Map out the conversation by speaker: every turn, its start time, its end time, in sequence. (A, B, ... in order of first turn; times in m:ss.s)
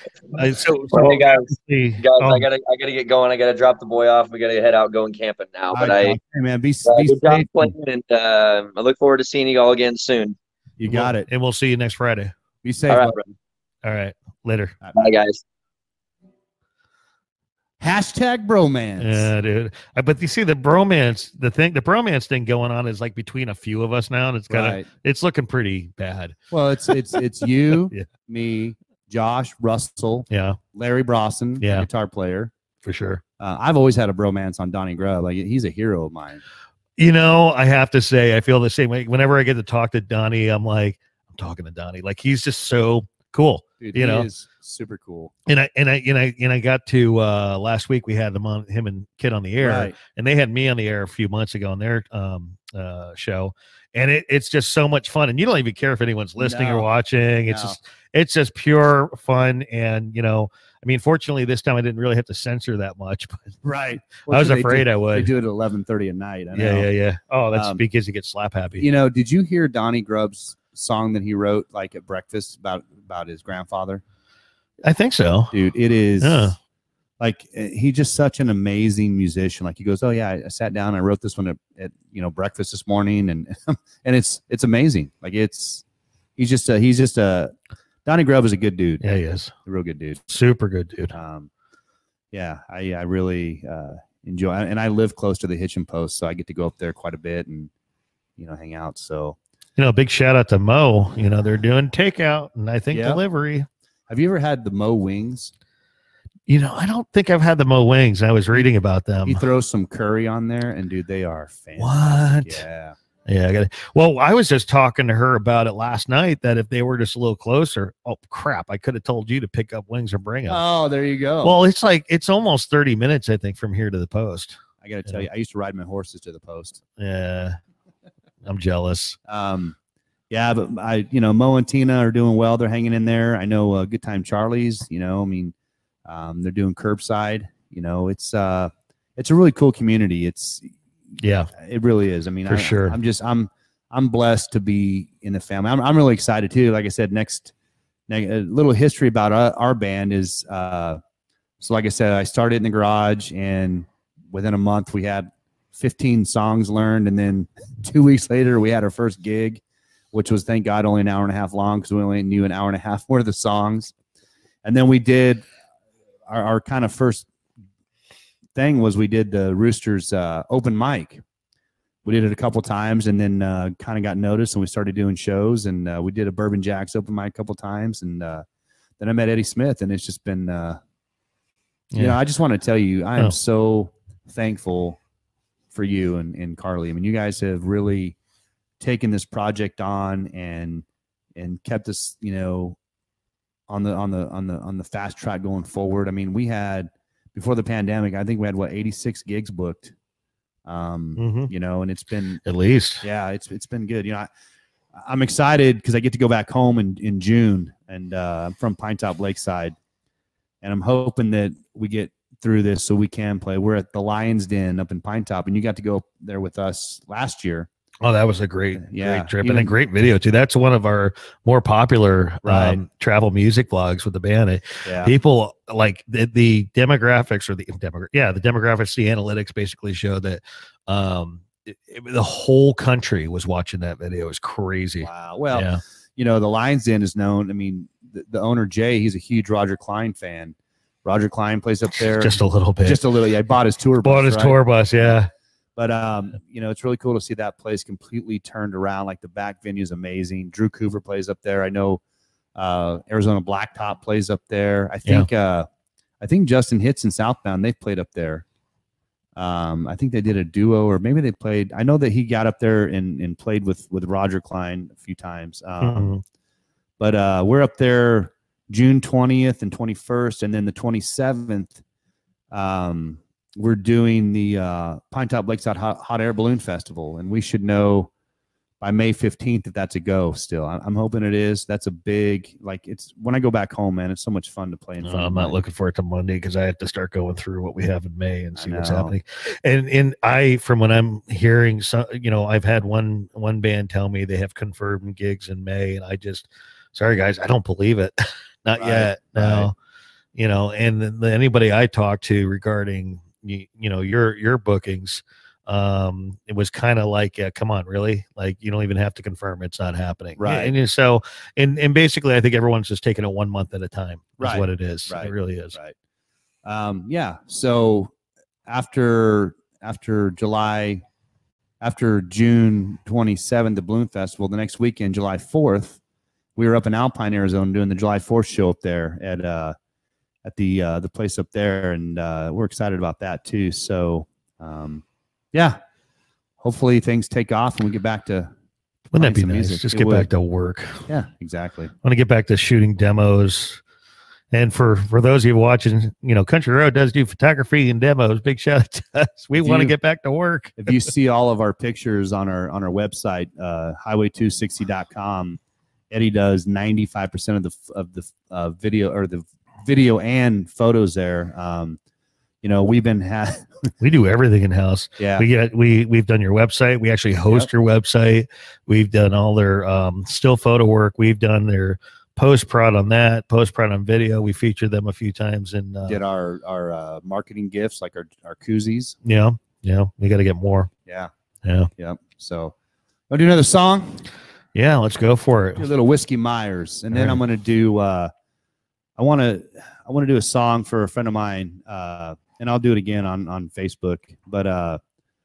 0:00.3-0:02.5 A
0:00.9-0:06.2 B
0:05.7-0:07.7 C
0:06.8-0:10.4 B
0:10.8-0:11.3 C
0:10.8-0:12.3 A
0:12.6-0:13.3 C
0:12.9-0:13.2 B
0:13.8-0:14.8 A
0:14.8-0:15.2 C
0:15.0-0:15.4 B
0:17.8-0:19.3 C
0:19.0-0:26.4 A
0:24.5-0:24.9 C
0:26.5-0:32.5 C
0:30.3-0:30.6 A
0:31.6-0:31.9 A
0:32.8-0:33.2 A
0:33.4-0:36.4 C
0:37.0-0:44.3 A
0:43.8-0:45.3 C
0:45.5-1:03.6 A
0:49.6-0:50.0 C
0:56.4-0:56.9 C
0:57.5-0:57.8 C
1:03.6-1:06.9 C
1:04.2-1:05.3 A
1:06.5-1:08.8 A
1:07.5-1:07.8 C
1:08.8-1:14.0 C
1:14.8-1:15.6 A
1:15.5-1:16.5 C
1:16.2-1:16.6 A
1:17.2-1:25.8 C
1:26.4-1:27.5 C
1:28.0-1:29.0 C
1:29.0-1:29.5 A
1:29.6-1:30.3 C
1:30.3-1:31.1 A
1:31.1-1:31.5 C
1:32.3-1:37.7 C
1:38.4-1:39.4 C
1:39.8-1:43.7 A
1:42.9-1:43.2 C
1:44.1-1:45.5 C
1:46.5-1:49.4 A
1:49.2-1:52.9 C
1:51.8-1:52.6 A
1:53.3-2:00.6 A
2:00.5-2:01.5 C
2:01.4-2:05.3 A
2:04.8-2:06.8 C
2:07.0-2:07.6 A
2:08.4-2:09.2 A
2:09.3-2:09.8 C
2:10.3-2:15.5 C
2:16.1-2:20.8 C
2:21.2-2:21.5 A
2:21.5-2:27.5 C
2:22.4-2:23.0 A
2:28.1-2:31.0 C
2:31.6-2:39.6 C
2:40.1-2:43.9 C
2:44.6-2:45.5 C
2:46.3-2:47.3 C
2:48.5-2:51.2 C
2:52.0-2:58.4 C
2:59.0-3:00.8 C
3:01.9-3:02.2 A
3:02.0-3:05.0 C
3:05.7-3:08.2 C
3:08.8-3:12.8 C
3:13.7-3:19.9 C
3:20.6-3:22.4 C
3:21.2-3:21.5 A
3:22.4-3:23.0 A
3:23.0-3:24.3 C
3:24.9-3:29.8 C
3:30.6-3:37.7 C
3:38.0-3:55.8 A
3:38.8-3:39.8 C
3:42.4-3:42.8 C
3:44.8-3:45.1 C
3:55.0-4:05.1 C
4:02.0-4:03.0 A
4:04.0-4:05.3 A
4:05.8-4:12.0 C
4:12.6-4:15.7 C
4:16.2-4:18.4 C
4:19.4-4:26.1 C
4:25.8-4:26.2 A
4:27.0-4:31.8 C
4:32.5-4:38.1 C
4:38.8-4:45.6 C
4:45.0-4:59.7 A
4:48.6-4:49.2 C
4:58.8-4:59.7 C
5:00.4-5:15.8 A
5:10.4-5:10.7 C
5:14.4-5:15.9 C
5:16.6-5:18.1 C
5:18.6-5:21.0 C
5:21.8-5:26.0 C
5:26.6-5:29.8 C
5:30.4-5:35.8 C
5:36.6-5:38.5 C
5:39.1-5:41.1 A
5:39.2-5:40.3 C
5:41.1-5:41.9 C
5:42.0-5:43.8 A
5:44.5-5:51.1 A
5:49.6-5:49.9 C
5:50.8-5:55.6 C
5:56.1-6:02.0 C
6:02.6-6:03.9 C
6:04.0-6:16.2 A
6:05.2-6:05.4 C
6:16.1-6:19.2 C
6:19.2-6:20.9 A
6:21.6-6:21.9 A
6:22.0-6:22.8 C
6:23.3-6:24.2 C
6:24.8-6:25.8 A
6:25.8-6:28.3 C
6:27.1-6:27.4 A
6:29.2-6:35.0 C